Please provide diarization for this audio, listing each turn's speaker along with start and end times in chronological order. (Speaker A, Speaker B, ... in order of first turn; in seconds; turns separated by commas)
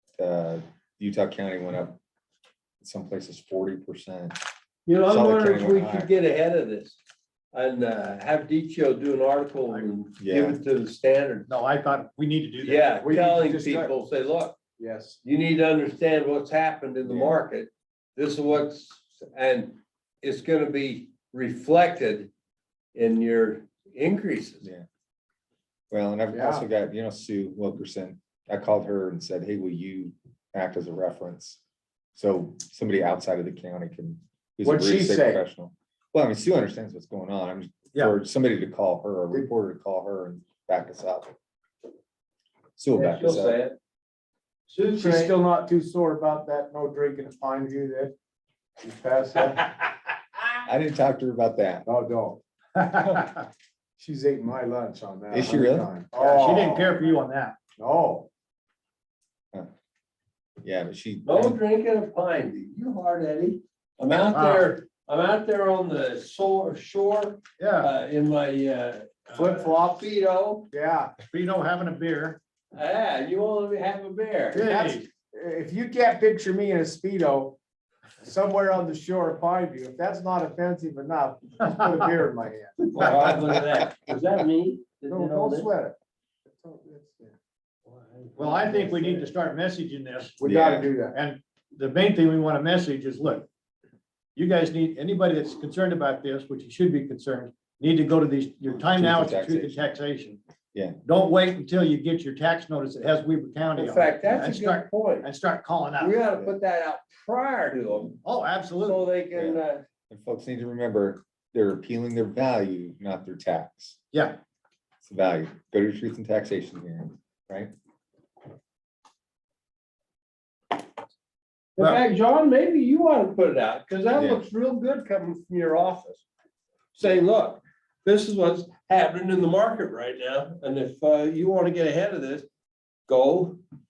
Speaker A: 0.2-2.0, Speaker A: 2.8-4.3, Speaker B: 4.8-7.0, Speaker A: 5.0-6.1, Speaker B: 7.5-11.5, Speaker A: 10.2-10.6, Speaker C: 11.5-12.9, Speaker B: 12.6-14.6, Speaker D: 13.0-13.9, Speaker D: 14.8-15.2, Speaker B: 15.2-22.3, Speaker A: 17.0-17.3, Speaker B: 22.9-24.6, Speaker A: 25.9-31.6, Speaker D: 26.3-26.6, Speaker A: 32.1-41.3, Speaker D: 34.6-35.4, Speaker A: 42.8-43.6, Speaker B: 42.9-43.8, Speaker B: 44.7-45.3, Speaker D: 44.9-48.1, Speaker D: 48.8-49.7, Speaker A: 50.6-51.9, Speaker D: 51.9-52.4, Speaker C: 52.7-53.5, Speaker D: 54.0-57.0, Speaker A: 55.3-55.9, Speaker C: 56.1-57.5, Speaker D: 57.8-58.3, Speaker A: 60.6-61.6, Speaker B: 61.2-70.7, Speaker C: 64.2-64.7, Speaker C: 67.6-67.9, Speaker D: 69.3-70.0, Speaker D: 70.7-71.1, Speaker C: 71.3-72.4, Speaker B: 72.7-74.9, Speaker C: 74.5-75.1, Speaker D: 74.7-77.6, Speaker D: 78.2-83.3, Speaker B: 82.8-85.7, Speaker A: 83.2-83.6, Speaker D: 85.1-86.0, Speaker D: 86.5-87.3, Speaker B: 87.8-89.2, Speaker C: 88.4-90.4, Speaker D: 90.4-91.2, Speaker A: 90.4-90.9, Speaker C: 91.1-93.5, Speaker C: 94.3-100.4, Speaker A: 98.7-99.8, Speaker C: 101.0-106.2, Speaker B: 103.7-105.3, Speaker B: 106.0-108.2, Speaker C: 108.2-109.0, Speaker B: 108.8-109.8, Speaker A: 109.3-114.0, Speaker C: 114.1-114.4, Speaker A: 115.0-117.7, Speaker B: 121.8-126.2, Speaker A: 124.1-124.4, Speaker B: 126.9-132.5, Speaker B: 133.1-133.6